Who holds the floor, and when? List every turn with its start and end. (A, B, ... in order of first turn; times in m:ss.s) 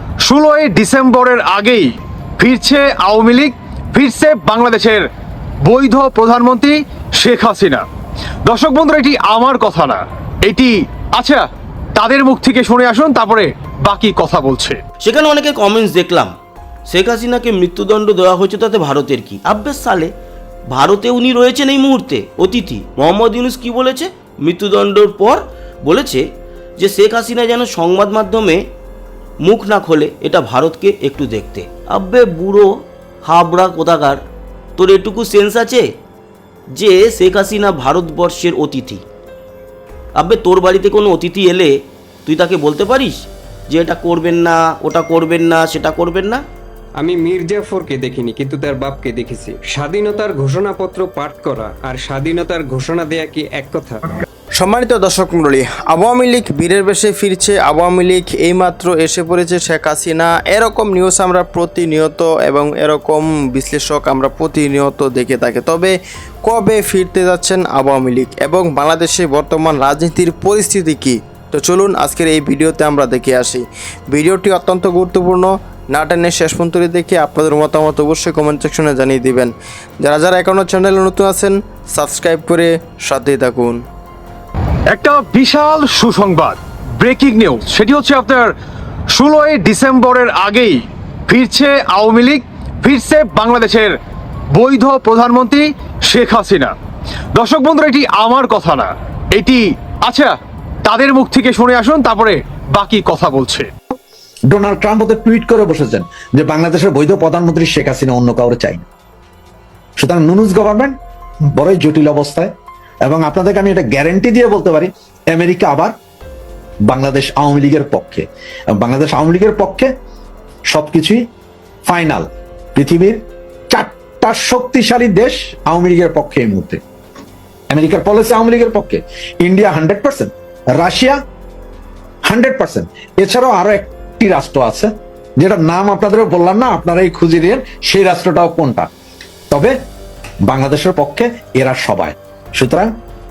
0:00.2-0:05.0 A
0:05.6-0:07.8 A
0:08.4-0:11.4 A
0:12.0-0:14.8 A
0:15.0-0:16.3 B
0:16.9-0:20.1 B
0:20.7-0:26.2 B
0:26.8-0:28.7 B
0:29.4-0:32.7 B
0:33.2-0:34.2 B
0:34.8-0:35.9 B
0:36.7-0:39.0 B
0:40.2-0:41.7 B
0:42.2-0:46.4 B
0:47.0-0:54.0 C
0:54.6-1:23.8 D
1:24.9-1:28.5 A
1:29.1-1:33.9 A
1:34.5-1:36.7 A
1:37.3-1:40.3 A
1:40.8-1:43.7 A
1:44.5-1:48.8 E
1:50.0-1:50.9 E
1:51.5-1:52.5 E
1:53.0-1:55.9 E
1:56.9-1:59.9 E
2:00.7-2:01.2 E
2:01.9-2:06.8 E
2:07.7-2:11.2 E
2:12.2-2:18.9 E
2:20.5-2:22.9 E